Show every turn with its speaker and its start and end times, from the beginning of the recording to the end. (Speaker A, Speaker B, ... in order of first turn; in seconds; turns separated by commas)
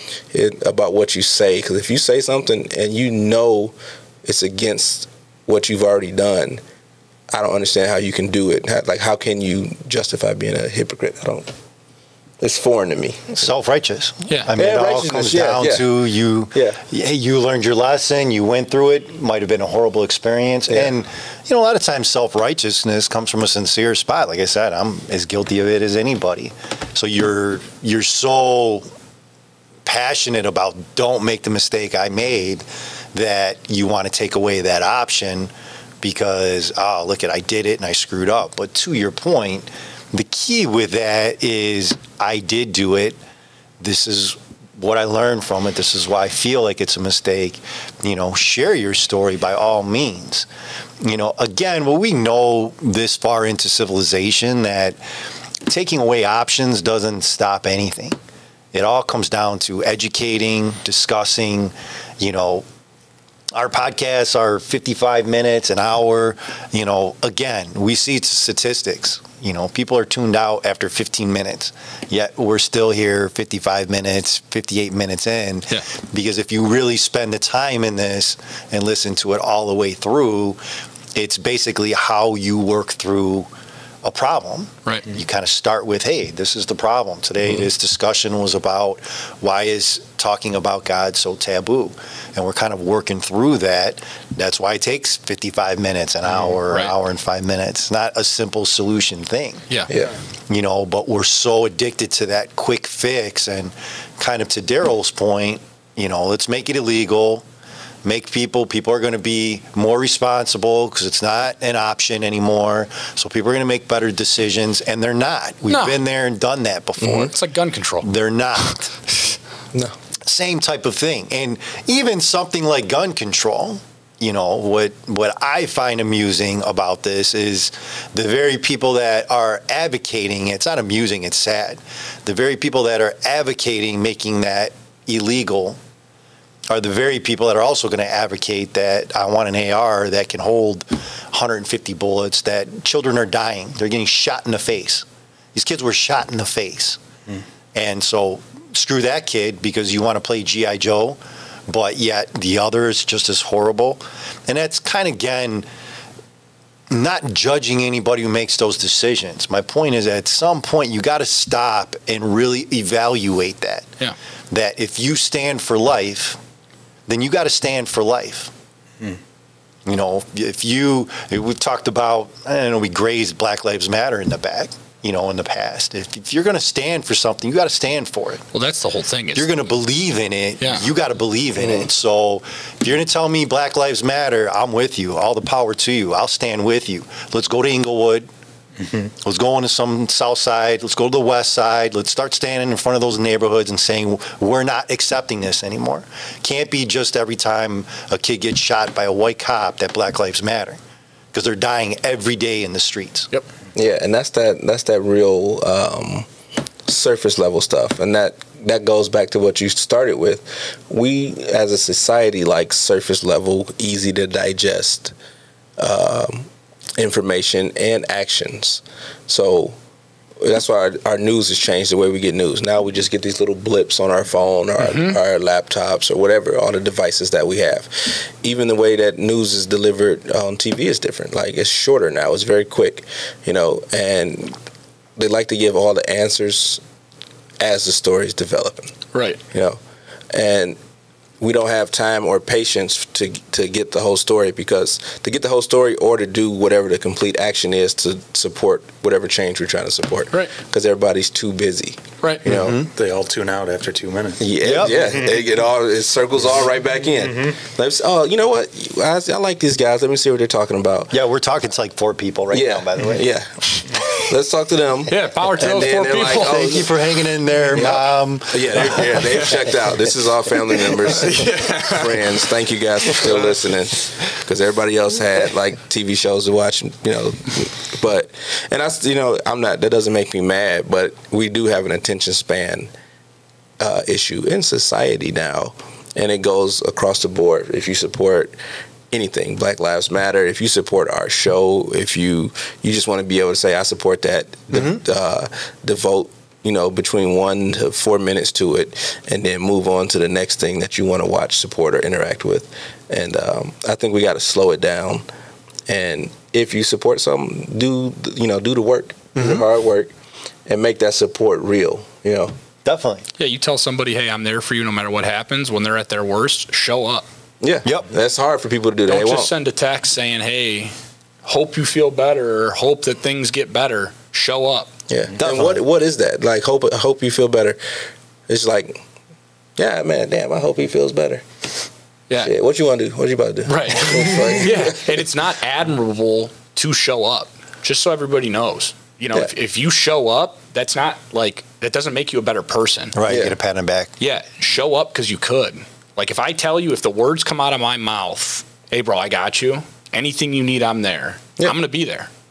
Speaker A: 0.3-6.6, Speaker A: 7.3-11.5, Speaker A: 12.4-13.4, Speaker B: 13.3-28.9, Speaker A: 14.6-15.9, Speaker A: 16.5-16.8, Speaker B: 29.9-35.5, Speaker B: 36.0-43.2, Speaker B: 43.8-50.5, Speaker B: 51.0-55.0, Speaker B: 55.7-58.2, Speaker B: 58.7-62.7, Speaker B: 63.5-80.6, Speaker B: 81.2-83.5, Speaker B: 84.0-99.7, Speaker B: 100.5-107.5, Speaker B: 108.0-117.3, Speaker C: 115.7-116.0, Speaker C: 117.1-118.1, Speaker B: 118.0-119.3, Speaker B: 120.2-135.8, Speaker B: 136.7-147.0, Speaker B: 147.7-155.7, Speaker B: 156.9-163.9, Speaker B: 164.5-166.4, Speaker B: 167.1-168.5, Speaker B: 169.9-178.5, Speaker C: 178.5-179.5, Speaker B: 179.3-188.3, Speaker A: 181.6-181.9, Speaker D: 188.8-189.1, Speaker B: 189.2-200.8, Speaker B: 201.3-203.3, Speaker A: 203.8-206.3, Speaker A: 206.8-215.1, Speaker A: 215.8-219.8, Speaker A: 220.4-234.6, Speaker C: 224.8-225.2, Speaker A: 235.2-236.8, Speaker A: 237.6-238.9, Speaker C: 239.1-239.4, Speaker A: 239.5-239.8, Speaker A: 240.3-240.8, Speaker A: 241.4-252.8, Speaker B: 252.5-252.9, Speaker D: 252.9-255.4, Speaker A: 254.4-261.1, Speaker B: 254.6-255.0, Speaker D: 257.2-257.6, Speaker B: 261.1-263.2, Speaker A: 262.5-266.9, Speaker C: 265.1-266.8, Speaker B: 266.4-269.6, Speaker A: 267.8-282.9, Speaker C: 269.0-269.5, Speaker C: 271.1-272.3, Speaker A: 283.8-288.5, Speaker A: 289.1-305.2, Speaker A: 305.9-310.1, Speaker B: 309.4-309.6, Speaker A: 310.7-312.5, Speaker B: 312.9-313.3, Speaker C: 313.4-317.2, Speaker A: 317.6-319.5, Speaker C: 319.1-320.9, Speaker C: 321.4-324.9, Speaker A: 325.1-327.8, Speaker B: 325.4-325.8, Speaker A: 328.5-329.0, Speaker A: 329.8-331.4, Speaker A: 332.4-335.2, Speaker C: 333.7-343.2, Speaker B: 343.1-344.1, Speaker A: 343.3-343.6, Speaker C: 344.2-352.3